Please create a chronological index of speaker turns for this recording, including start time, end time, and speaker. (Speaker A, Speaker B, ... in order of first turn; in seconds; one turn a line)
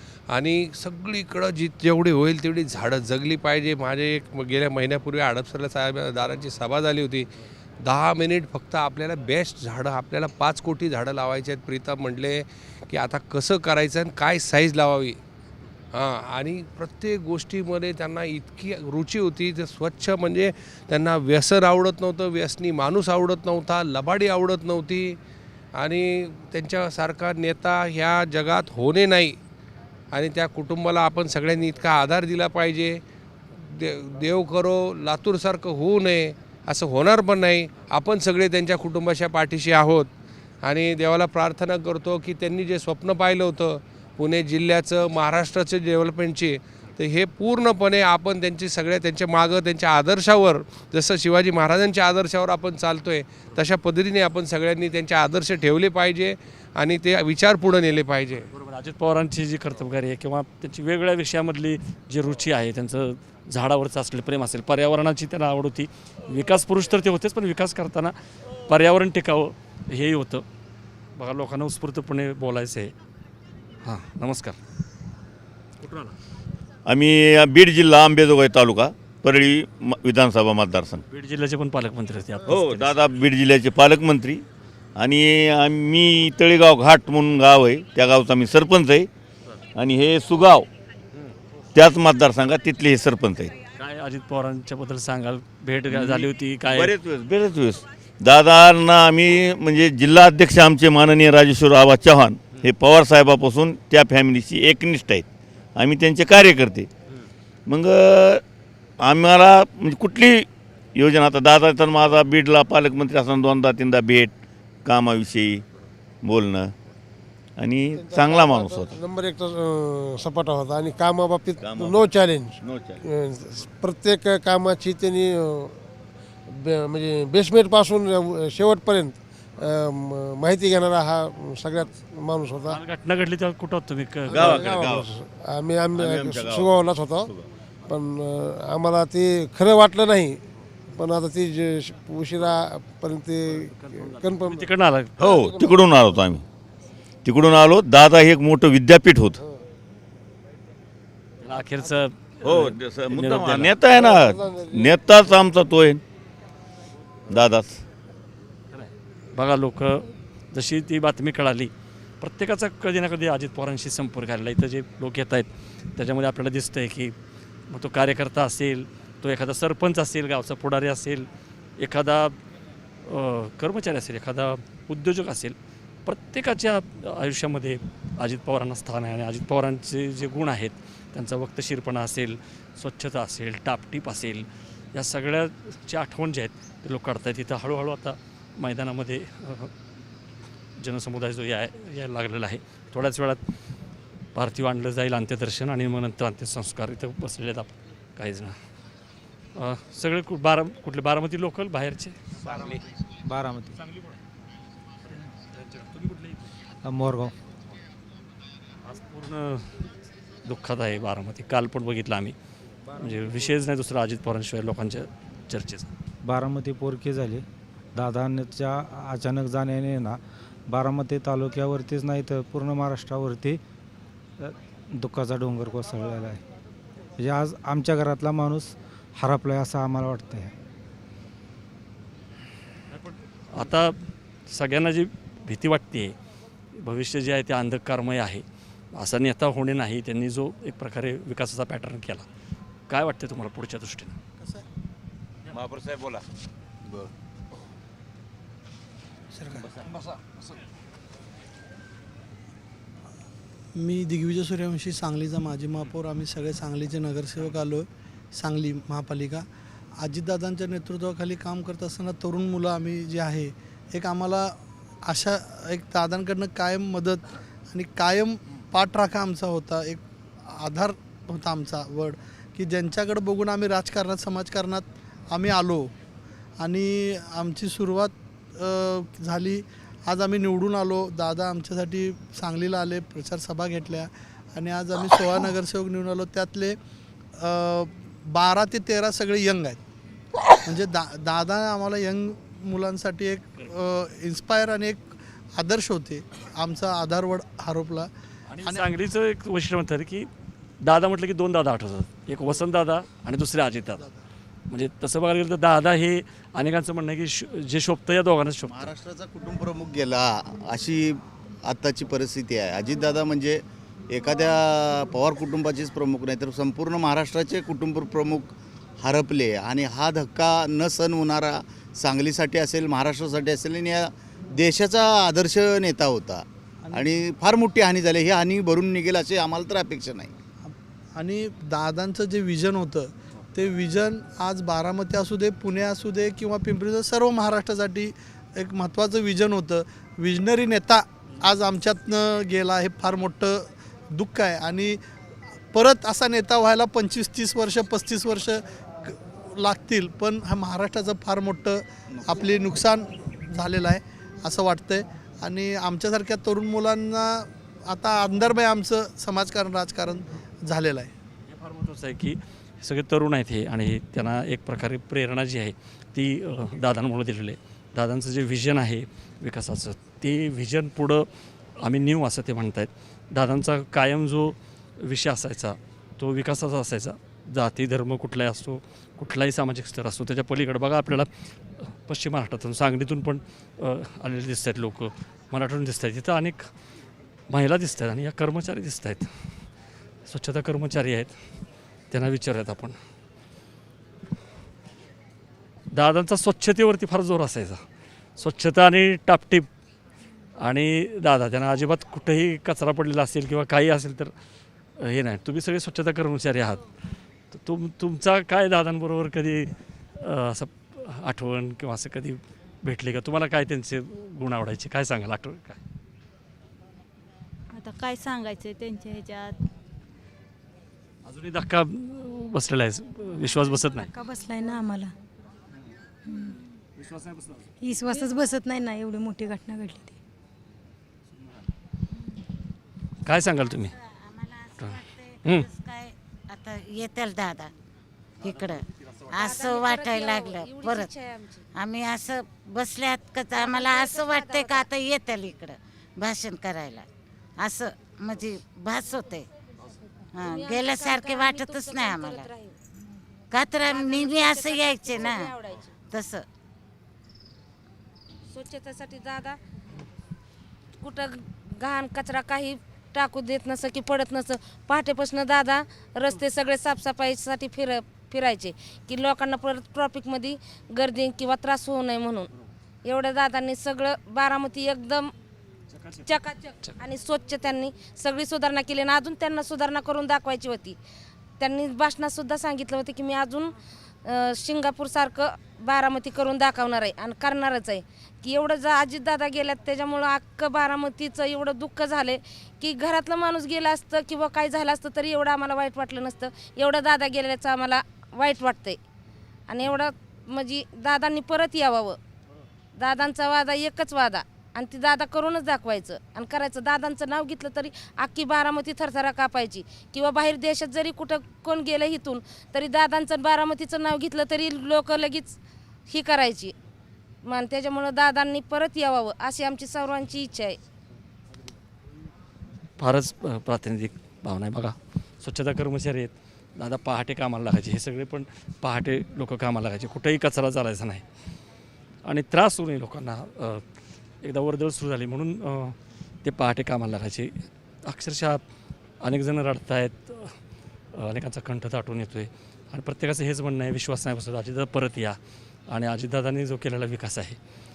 Speaker A: 0.3-7.3
Speaker A: 7.8-15.2
Speaker A: 15.9-25.2
Speaker A: 25.7-29.4
Speaker A: 30.1-33.0
Speaker A: 33.5-40.1
Speaker A: 40.6-58.5
Speaker B: 58.5-68.1
Speaker B: 68.7-70.4
Speaker B: 71.2-72.9
Speaker B: 73.8-74.6
Speaker C: 76.9-81.0
Speaker B: 81.1-82.9
Speaker C: 82.5-84.4
Speaker C: 85.0-89.1
Speaker C: 89.8-90.7
Speaker C: 91.7-93.5
Speaker B: 93.8-96.9
Speaker C: 95.9-105.2
Speaker C: 105.8-106.9
Speaker C: 107.7-108.4
Speaker C: 109.0-114.3
Speaker C: 114.8-115.6
Speaker C: 116.2-116.7
Speaker C: 117.6-119.0
Speaker D: 118.0-125.8
Speaker C: 121.6-122.1
Speaker C: 122.6-123.0
Speaker D: 126.5-132.8
Speaker B: 132.7-134.6
Speaker C: 134.3-135.1
Speaker D: 134.3-137.3
Speaker C: 135.9-137.4
Speaker D: 137.9-140.4
Speaker D: 140.9-144.7
Speaker B: 143.8-145.1
Speaker C: 145.2-146.4
Speaker D: 145.2-145.8
Speaker C: 147.2-149.4
Speaker B: 151.4-153.7
Speaker C: 152.4-156.0
Speaker D: 154.0-154.9
Speaker C: 157.3-157.8
Speaker B: 158.7-167.1
Speaker B: 167.7-172.4
Speaker B: 173.1-189.7
Speaker B: 190.8-193.4
Speaker B: 194.3-198.6
Speaker B: 199.5-202.2
Speaker E: 203.2-203.8
Speaker E: 206.8-207.3
Speaker B: 208.9-209.9
Speaker B: 210.4-212.3
Speaker B: 212.9-215.9
Speaker E: 216.2-217.4
Speaker E: 217.9-223.6
Speaker E: 224.4-226.4
Speaker E: 227.2-230.5
Speaker B: 233.5-236.2
Speaker B: 236.7-242.2
Speaker B: 242.9-244.2
Speaker F: 249.3-249.7
Speaker F: 253.8-259.5
Speaker F: 260.0-275.9
Speaker F: 276.6-286.8
Speaker F: 287.4-289.8
Speaker F: 290.6-298.1
Speaker B: 298.5-300.3
Speaker F: 298.6-298.9
Speaker B: 300.8-304.1
Speaker B: 304.7-308.9
Speaker G: 308.6-311.1
Speaker G: 311.6-330.3
Speaker F: 330.6-345.0
Speaker F: 345.7-361.1
Speaker B: 361.5-371.3
Speaker B: 371.8-386.7
Speaker B: 387.5-389.6
Speaker B: 390.2-391.4
Speaker B: 392.1-392.9
Speaker B: 395.9-397.8
Speaker B: 398.4-399.7
Speaker B: 400.6-404.3
Speaker B: 405.0-406.9
Speaker B: 407.5-415.8
Speaker H: 417.7-419.6
Speaker B: 421.2-424.1
Speaker H: 424.1-425.1
Speaker H: 426.2-426.6
Speaker H: 427.8-430.1
Speaker B: 433.2-433.9
Speaker I: 433.6-437.7
Speaker I: 438.4-441.1
Speaker J: 439.4-441.6
Speaker I: 441.7-447.1
Speaker J: 443.5-444.9
Speaker I: 447.6-449.5
Speaker I: 450.3-452.5
Speaker J: 450.4-452.7
Speaker I: 453.5-455.5
Speaker J: 453.9-455.9
Speaker I: 456.1-456.4
Speaker J: 458.5-459.6
Speaker J: 461.0-472.5
Speaker J: 473.1-475.3
Speaker J: 476.2-481.0
Speaker J: 481.6-483.7
Speaker J: 484.2-499.0
Speaker J: 499.7-502.2
Speaker J: 503.0-515.5
Speaker J: 516.1-516.7
Speaker J: 517.5-520.8
Speaker B: 523.0-531.2
Speaker B: 532.2-533.8
Speaker B: 534.4-538.6
Speaker B: 539.2-540.5
Speaker B: 541.1-545.4
Speaker B: 545.9-547.6